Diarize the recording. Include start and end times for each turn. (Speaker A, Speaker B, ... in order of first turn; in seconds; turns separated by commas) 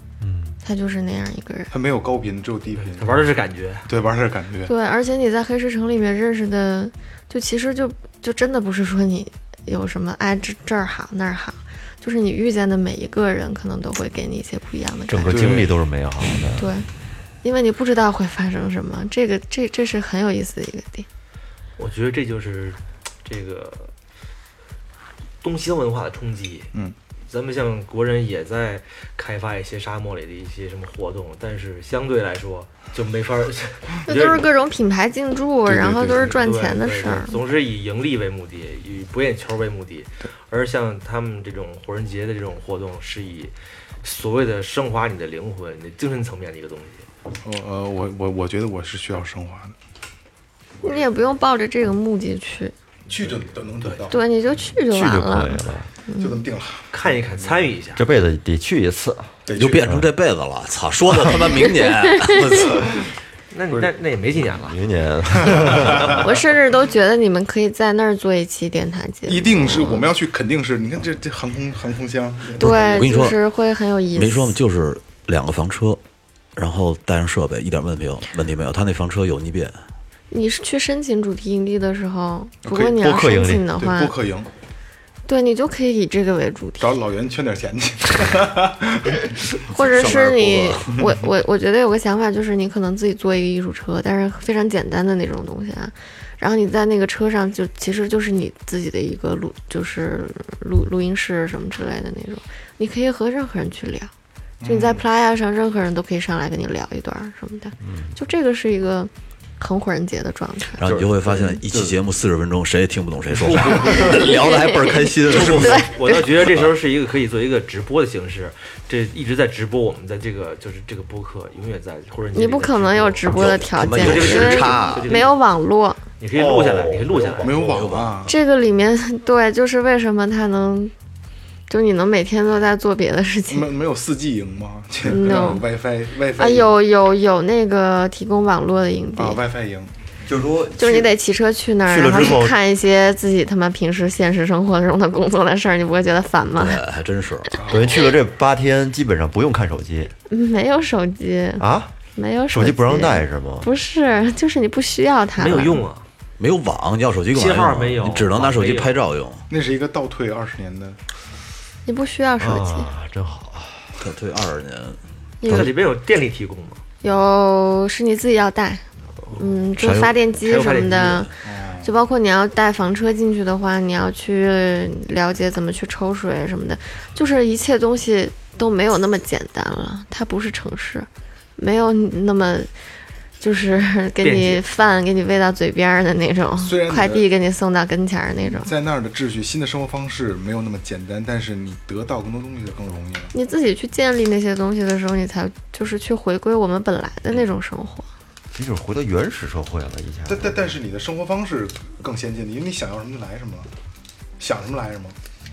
Speaker A: 0.2-0.6, Speaker B: 0.6-1.7, Speaker C: 1.7-3.3, Speaker D: 2.8-3.9, Speaker C: 3.9-4.7, Speaker B: 4.7-15.7, Speaker A: 15.1-16.7, Speaker C: 15.3-15.7, Speaker B: 16.6-16.9, Speaker B: 17.4-21.1, Speaker D: 21.8-23.9, Speaker D: 25.4-26.7, Speaker D: 27.3-34.5, Speaker B: 34.1-37.4, Speaker C: 35.7-36.3, Speaker D: 36.0-47.1, Speaker C: 47.4-49.8, Speaker B: 50.8-52.7, Speaker C: 53.1-54.2, Speaker B: 54.1-56.4, Speaker A: 54.7-55.9, Speaker C: 56.2-57.7, Speaker D: 56.9-58.0, Speaker A: 57.9-60.1, Speaker C: 59.5-59.9, Speaker E: 59.5-63.0, Speaker D: 63.5-64.8, Speaker A: 63.7-66.4, Speaker C: 65.4-66.1, Speaker B: 66.0-70.1, Speaker C: 69.3-73.1, Speaker B: 72.6-74.6, Speaker E: 72.6-73.4, Speaker E: 74.2-76.0, Speaker E: 76.6-79.8, Speaker B: 80.3-84.1, Speaker C: 82.7-83.1, Speaker A: 82.9-83.7, Speaker C: 83.7-84.5, Speaker B: 85.3-86.9, Speaker C: 86.8-89.7, Speaker B: 89.7-104.1, Speaker E: 89.7-91.0, Speaker C: 104.6-105.1, Speaker B: 104.6-110.8, Speaker A: 107.8-108.1, Speaker E: 110.8-116.7, Speaker C: 110.8-112.0, Speaker C: 113.5-114.1, Speaker D: 113.7-114.3, Speaker B: 114.0-116.3, Speaker D: 115.3-125.4, Speaker B: 122.3-126.0, Speaker E: 123.3-125.3, Speaker D: 126.2-127.6, Speaker A: 126.3-127.8, Speaker C: 127.4-128.3, Speaker E: 127.5-128.3, Speaker B: 128.3-130.9, Speaker B: 131.7-133.7, Speaker C: 133.5-136.7, Speaker B: 135.1-135.7, Speaker B: 136.4-139.4, Speaker C: 139.2-140.0, Speaker A: 140.2-141.1, Speaker B: 140.8-146.8, Speaker A: 141.9-142.6, Speaker E: 146.5-147.7, Speaker C: 147.5-148.1, Speaker A: 147.7-150.1, Speaker B: 150.3-155.8, Speaker A: 151.6-151.9, Speaker A: 152.5-153.7, Speaker D: 155.4-156.1, Speaker E: 156.4-159.5, Speaker D: 157.3-158.9, Speaker C: 159.5-161.0, Speaker B: 161.9-162.9, Speaker A: 162.4-164.0, Speaker E: 164.0-165.7, Speaker B: 165.4-165.7, Speaker D: 165.4-166.8, Speaker B: 167.0-182.7, Speaker E: 169.8-170.2, Speaker D: 170.4-171.3, Speaker C: 171.4-171.9, Speaker B: 183.4-188.7, Speaker D: 184.2-184.6, Speaker C: 186.6-187.3, Speaker C: 188.5-193.3, Speaker B: 193.3-198.1, Speaker A: 198.5-200.6, Speaker C: 200.3-203.7, Speaker C: 204.4-205.2